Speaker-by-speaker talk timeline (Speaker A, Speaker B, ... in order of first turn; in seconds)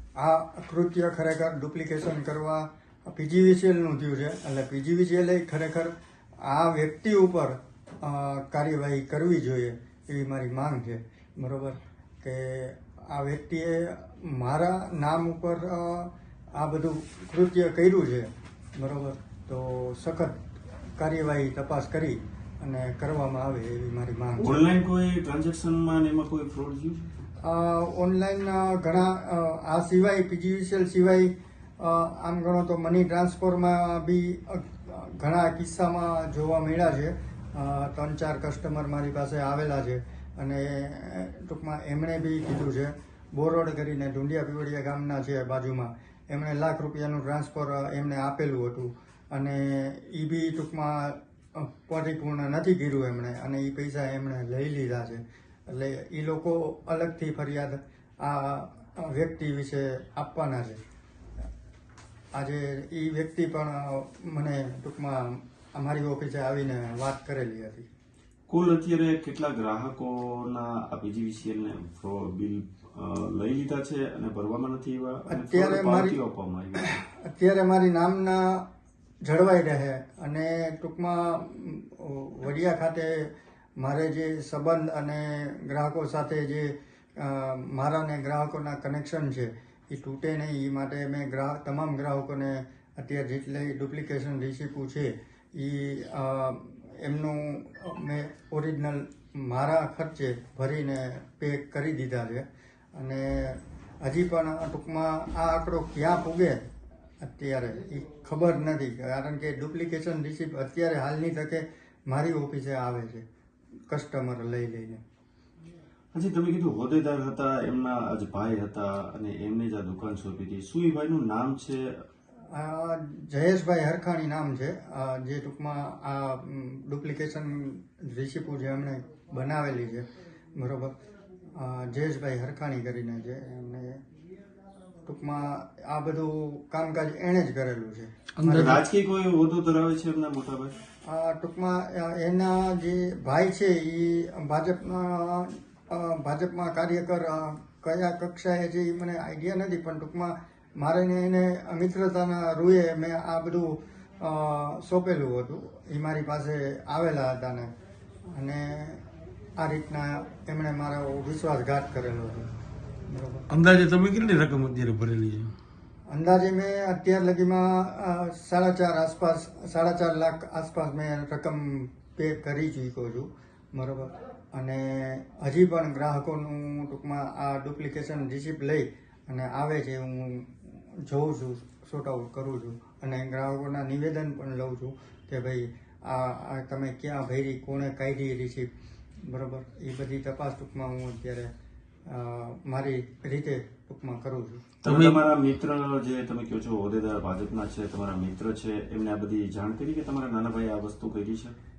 Speaker A: 0.2-20.4, 21.0-24.6, 27.4-60.8, 62.4-67.9, 75.3-76.2, 76.8-78.7, 79.2-106.6, 107.2-113.2, 113.9-115.0, 122.5-131.0, 131.6-134.0, 135.1-138.1, 141.1-157.7, 158.3-159.0, 159.6-162.5, 163.1-163.5, 166.1-188.7, 189.2-191.5, 192.1-194.7
Speaker B: 24.4-27.0, 68.5-77.0, 116.1-122.0, 138.4-140.8, 194.8-201.6
Speaker C: 138.4-138.8, 163.5-165.5, 194.8-195.2